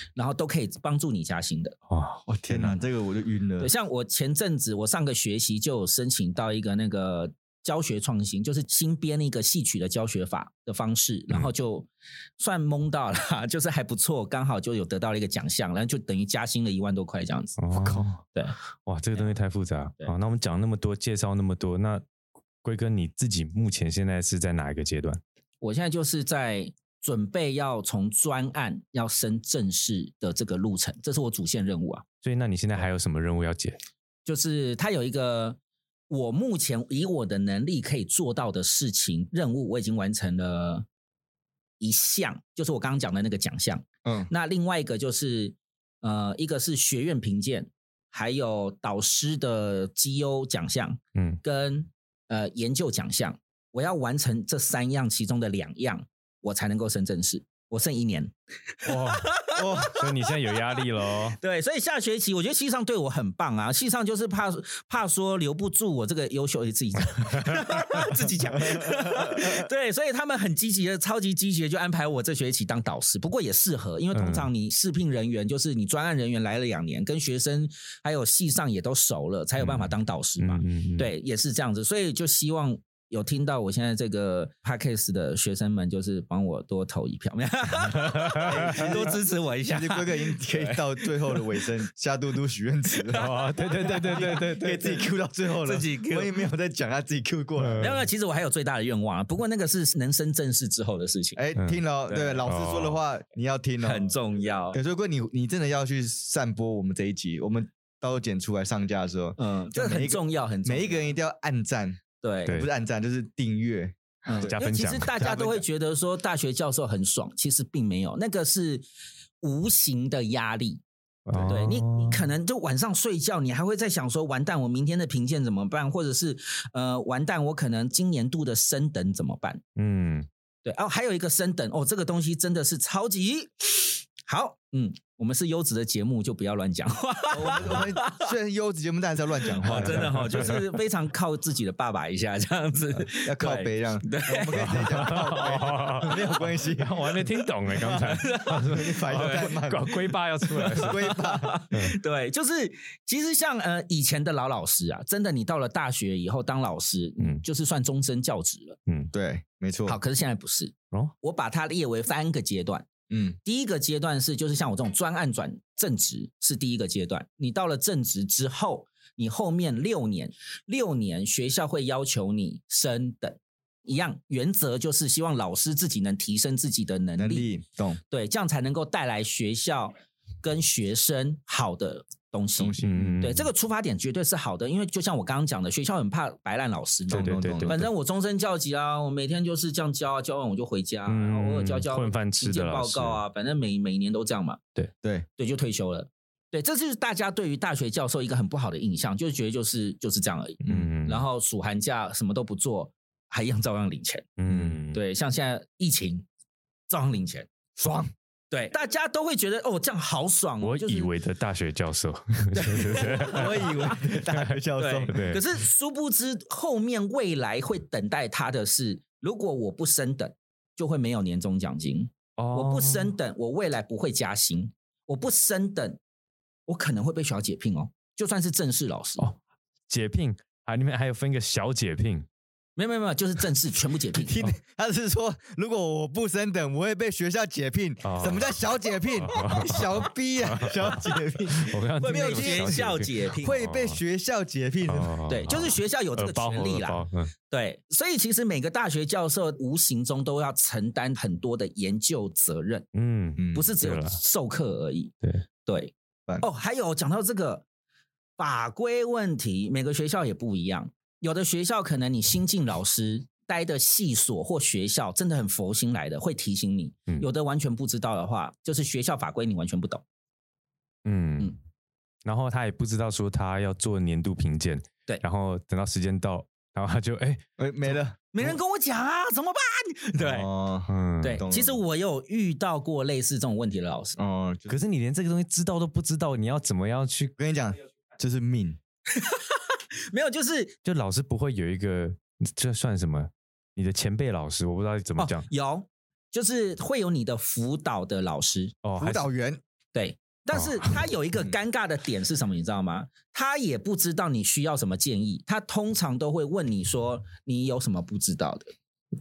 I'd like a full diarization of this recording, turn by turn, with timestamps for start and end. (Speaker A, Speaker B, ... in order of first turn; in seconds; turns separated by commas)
Speaker A: 0.2-1.8, Speaker B: 1.9-2.8, Speaker C: 2.3-3.7, Speaker A: 3.6-17.6, Speaker B: 17.6-18.2, Speaker C: 17.7-18.1, Speaker B: 18.9-22.0, Speaker B: 22.6-25.2, Speaker A: 25.6-32.0, Speaker B: 32.2-33.8, Speaker A: 34.2-35.6, Speaker A: 36.1-40.9, Speaker A: 41.8-60.8, Speaker C: 44.0-44.3, Speaker B: 51.2-51.4, Speaker B: 58.9-61.4, Speaker C: 59.6-60.0, Speaker A: 61.4-91.5, Speaker B: 67.3-67.6, Speaker C: 68.8-69.6, Speaker B: 74.1-74.5, Speaker B: 79.6-81.1, Speaker B: 88.0-88.9, Speaker C: 88.5-89.1, Speaker C: 89.7-97.9, Speaker A: 93.0-94.5, Speaker B: 93.2-95.0, Speaker A: 95.6-96.4, Speaker B: 97.6-98.0, Speaker A: 97.8-101.4, Speaker C: 101.4-104.1, Speaker A: 102.1-102.4, Speaker B: 102.5-103.0, Speaker A: 103.8-104.8, Speaker C: 104.7-114.5, Speaker A: 109.4-111.1, Speaker A: 112.2-112.6, Speaker A: 114.2-118.8, Speaker B: 114.4-115.4, Speaker C: 115.2-115.7, Speaker A: 119.4-129.6, Speaker B: 121.3-122.2, Speaker B: 129.8-130.3, Speaker A: 130.6-138.3, Speaker C: 137.3-140.6, Speaker A: 139.6-146.3, Speaker B: 139.6-140.7, Speaker C: 143.2-146.9, Speaker B: 144.5-146.2, Speaker B: 146.7-152.0, Speaker A: 147.1-149.5, Speaker C: 147.8-149.9, Speaker A: 150.5-158.8, Speaker C: 150.7-151.6, Speaker B: 158.9-159.1, Speaker C: 159.1-160.0, Speaker A: 159.9-162.9, Speaker C: 163.1-163.4, Speaker A: 163.4-177.5, Speaker C: 177.2-178.0, Speaker A: 178.1-194.6, Speaker C: 182.6-183.2, Speaker B: 182.8-183.5, Speaker C: 187.1-187.8, Speaker B: 187.1-187.9, Speaker B: 191.1-193.2, Speaker A: 195.4-206.3, Speaker B: 200.7-201.2, Speaker B: 204.4-205.0, Speaker A: 206.9-207.5, Speaker C: 207.8-208.1, Speaker A: 208.5-211.1, Speaker B: 210.6-214.6, Speaker A: 212.6-213.7, Speaker C: 212.9-215.2, Speaker A: 214.8-226.0, Speaker B: 215.1-215.4, Speaker B: 222.4-223.1, Speaker A: 226.7-229.3, Speaker B: 229.2-232.3, Speaker A: 232.8-234.4, Speaker C: 234.2-245.2, Speaker B: 238.0-244.0, Speaker A: 242.0-243.7, Speaker B: 244.8-247.3, Speaker A: 245.3-252.9, Speaker B: 252.9-254.2, Speaker C: 253.4-253.7, Speaker A: 253.5-255.1, Speaker A: 255.7-257.6, Speaker A: 258.4-270.0, Speaker B: 271.1-271.6, Speaker B: 272.2-277.4, Speaker C: 277.6-278.5, Speaker A: 278.3-280.5, Speaker C: 280.2-281.8, Speaker B: 280.9-281.4, Speaker A: 281.2-284.2, Speaker C: 284.2-284.8, Speaker B: 284.7-287.3, Speaker C: 287.4-288.8, Speaker A: 289.1-290.8, Speaker B: 290.9-295.5, Speaker A: 295.2-298.8, Speaker B: 298.8-299.3, Speaker C: 299.0-299.6, Speaker A: 299.9-308.7, Speaker B: 300.6-300.9